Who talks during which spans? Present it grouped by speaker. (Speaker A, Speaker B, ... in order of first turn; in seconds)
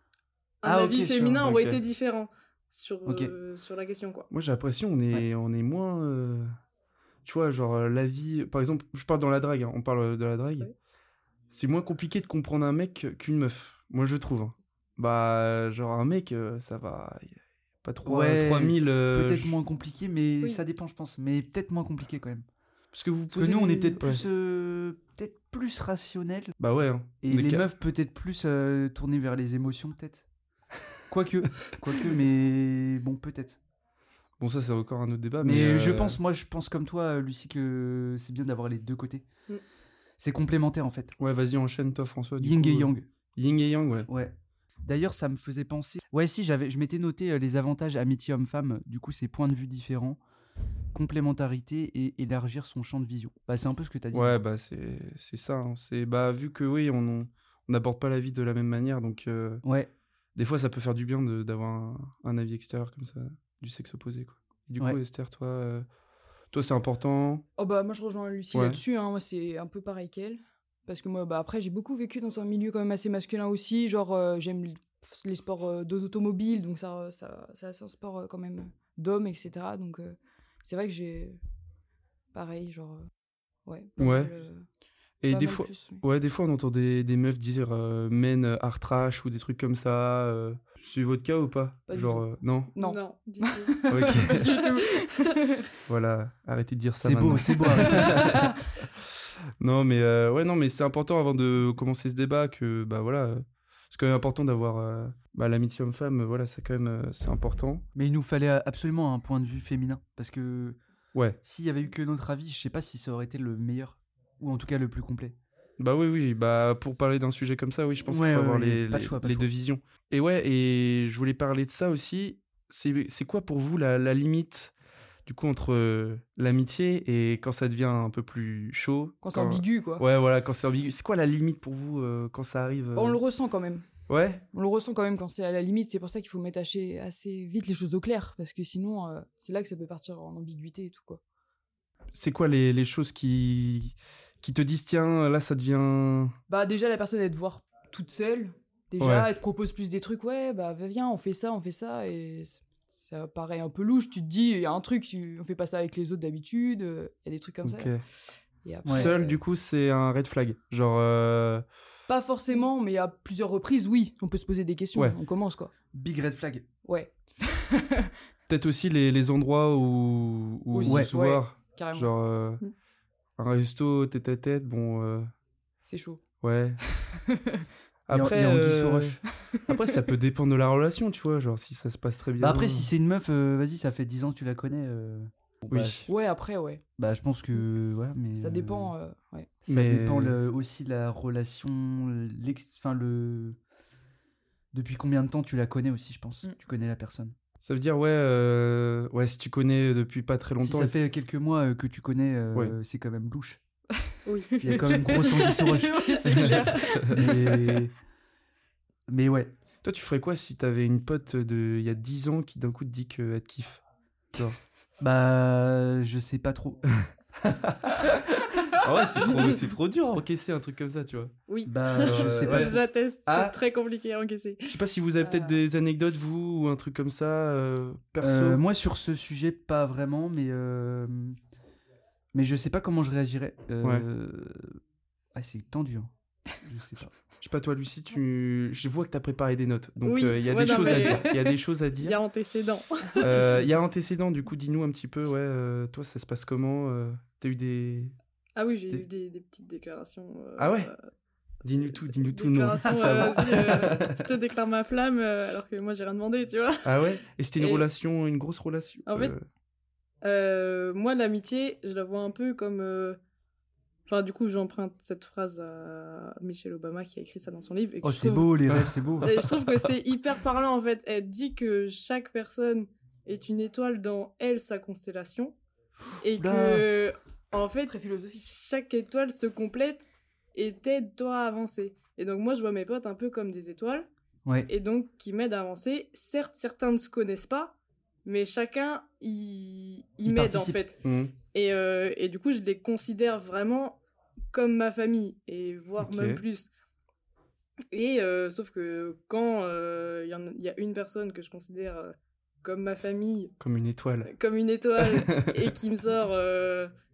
Speaker A: 0.6-4.3, 92.8-94.8, 204.3-207.4, 221.5-224.8, 240.0-243.6, 248.6-251.0, 252.0-257.9, 259.1-259.3, 260.2-263.2, 264.1-275.6, 276.2-284.1, 284.7-294.0, 294.5-296.7, 297.9-303.5, 304.2-306.9
Speaker B: 0.6-1.4, 3.1-3.3, 18.1-22.4, 23.3-26.6, 27.2-30.3, 31.1-33.6, 35.4-39.2, 40.2-41.1, 42.4-43.1, 44.1-50.2, 50.9-54.4, 59.6-59.9, 97.0-98.2, 108.0-110.8, 111.4-115.4, 118.1-119.5, 158.8-159.1, 165.9-166.7, 170.8-171.1, 178.1-179.2, 182.4-186.1, 187.0-188.9, 189.7-193.6, 194.7-197.3, 200.6-203.6, 204.6-206.2, 207.1-207.9, 209.1-209.5, 215.0-216.9, 221.7-222.8, 228.2-231.4, 232.3-234.8, 235.3-237.2, 268.0-269.3, 276.1-276.9, 290.2-290.8
Speaker C: 1.3-1.8, 4.3-6.5, 7.2-10.7, 11.5-19.6, 22.9-24.2, 26.6-27.7, 34.4-36.2, 41.2-44.1, 54.1-59.6, 60.4-65.9, 66.5-67.4, 68.5-68.8, 84.0-84.3, 85.2-92.7, 93.9-94.5, 95.9-99.0, 99.6-107.8, 111.1-111.4, 115.8-124.7, 125.3-133.2, 134.1-134.4, 142.1-146.3, 149.0-149.3, 157.6-158.0, 158.9-161.7, 168.5-172.6, 173.4-175.3, 176.4-176.8, 178.1-182.9, 185.7-186.1, 189.7-190.4, 197.6-200.9, 206.4-207.2, 209.8-213.8, 217.4-221.3, 222.0-223.6, 224.7-228.6, 237.4-242.2, 243.2-248.2, 250.6-250.9, 251.6-254.2, 256.8-259.4, 268.7-269.5, 291.0-291.3, 296.0-296.4, 303.6-304.3, 305.0-305.7
Speaker D: 67.6-81.4, 82.3-83.1, 83.7-84.7, 85.3-86.0, 91.9-95.7, 97.8-98.5, 129.2-130.1, 133.0-133.9, 134.5-141.2, 146.5-158.0, 158.6-159.4, 162.1-165.7, 166.8-168.1, 170.7-172.1, 175.8-176.2, 177.0-177.7, 186.1-186.8, 188.4-189.5, 204.5-207.7, 277.9-278.5